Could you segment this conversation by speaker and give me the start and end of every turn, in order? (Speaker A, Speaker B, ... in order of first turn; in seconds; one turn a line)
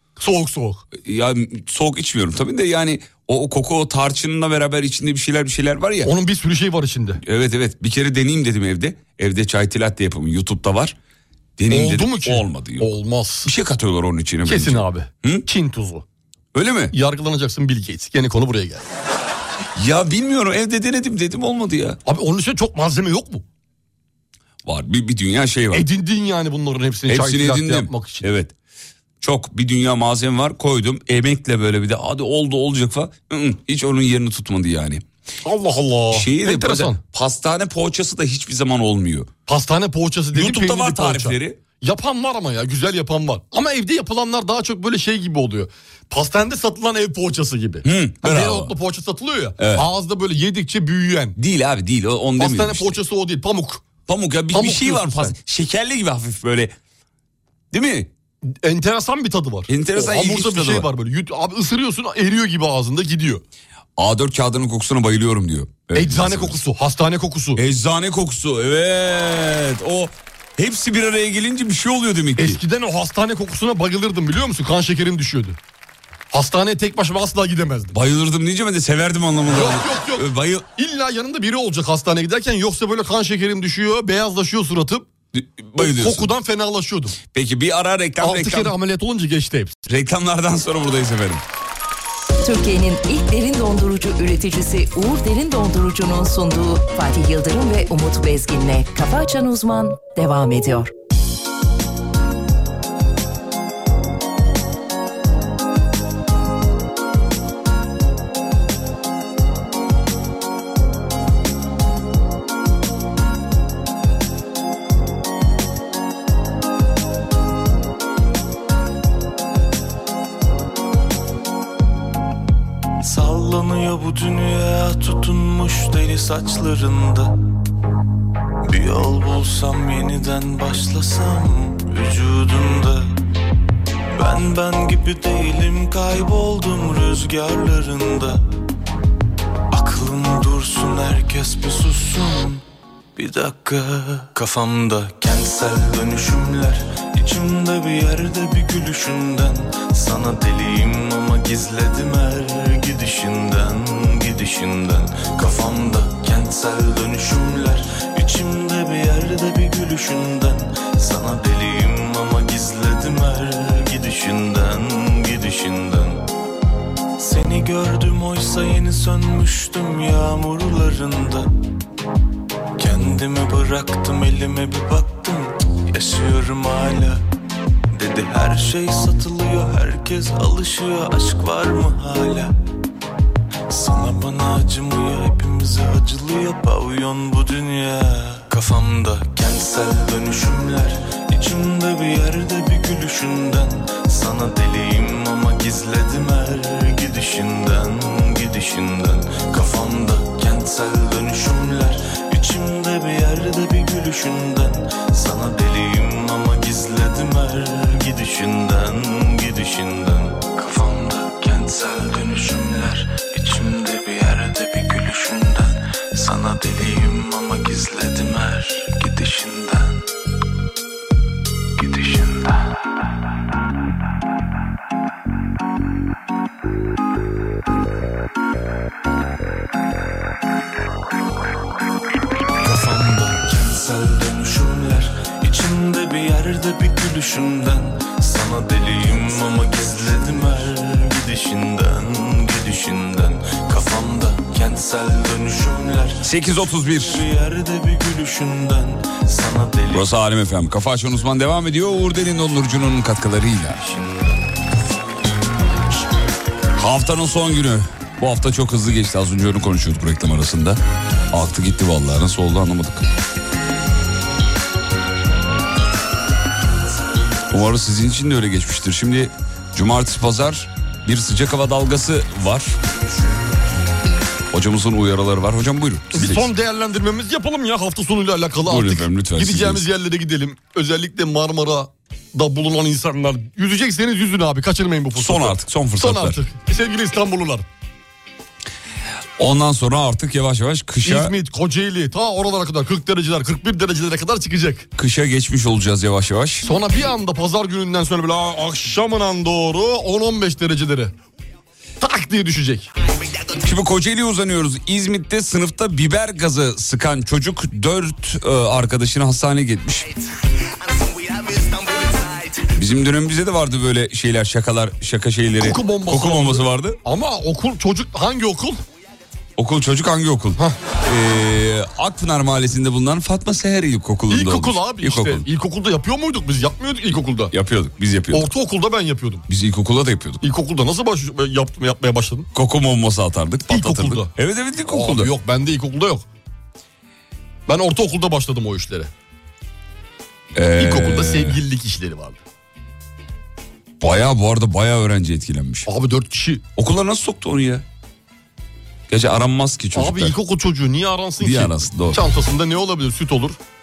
Speaker A: 0.2-0.8
Speaker B: 0.9-6.1
Speaker A: 6.0-7.2
Speaker B: 7.2-10.9
Speaker B: 11.6-12.9
Speaker A: 11.7-13.5
Speaker B: 13.4-15.4
Speaker A: 14.4-16.0
Speaker B: 16.5-16.9
Speaker A: 16.9-18.9
Speaker B: 19.7-22.0
Speaker A: 22.1-23.4
Speaker B: 24.6-25.9
Speaker A: 25.7-28.3
Speaker B: 27.1-28.5
Speaker B: 29.2-35.0
Speaker A: 35.4-37.0
Speaker B: 36.1-39.3
Speaker A: 39.5-51.4
Speaker B: 40.3-41.6
Speaker B: 47.8-48.7
Speaker B: 49.6-49.9
Speaker B: 51.4-53.0
Speaker A: 52.4-53.9
Speaker B: 54.0-56.8
Speaker A: 54.5-55.3
Speaker B: 57.7-58.1
Speaker A: 58.4-63.4
Speaker B: 59.7-60.9
Speaker B: 64.0-66.6
Speaker A: 65.9-67.6
Speaker B: 67.5-72.6
Speaker A: 72.4-75.6
Speaker A: 76.3-78.0
Speaker B: 77.9-80.7
Speaker A: 79.5-85.0
Speaker B: 85.3-86.3
Speaker A: 85.8-87.2
Speaker B: 87.3-88.7
Speaker A: 88.2-89.8
Speaker B: 89.9-91.4
Speaker C: 92.4-100.9
Speaker D: 123.0-127.3
Speaker D: 128.6-133.1
Speaker D: 134.1-138.4
Speaker D: 139.7-142.6
Speaker D: 143.2-166.2
Speaker D: 167.2-171.5
Speaker D: 172.8-177.2
Speaker D: 177.9-182.5
Speaker D: 183.7-220.0
Speaker D: 221.8-222.7
Speaker D: 232.6-246.2
Speaker B: 246.2-247.2
Speaker D: 247.0-250.1
Speaker B: 249.9-253.8
Speaker D: 253.7-254.4
Speaker B: 256.8-260.8
Speaker B: 261.3-263.1
Speaker B: 267.5-272.7
Speaker B: 274.5-276.5
Speaker A: 276.1-287.6
Speaker B: 278.6-279.8
Speaker B: 285.1-286.4
Speaker B: 289.4-291.3
Speaker A: 291.0-294.9
Speaker B: 294.9-296.6
Speaker A: 296.6-301.1
Speaker A: 302.0-302.9
Speaker B: 303.6-310.2
Speaker B: 312.7-317.0
Speaker A: 315.6-318.8
Speaker B: 319.6-325.5
Speaker A: 324.3-327.5
Speaker B: 327.5-328.5
Speaker A: 328.3-329.4
Speaker B: 329.5-330.4
Speaker A: 330.4-332.5
Speaker B: 332.5-335.3
Speaker A: 333.7-334.3
Speaker A: 334.9-336.2
Speaker A: 337.7-339.1
Speaker B: 340.5-341.6
Speaker A: 340.8-342.4
Speaker B: 344.0-345.9
Speaker A: 345.9-346.6
Speaker B: 346.8-347.8
Speaker B: 349.1-350.4
Speaker A: 349.9-353.6
Speaker B: 351.4-352.2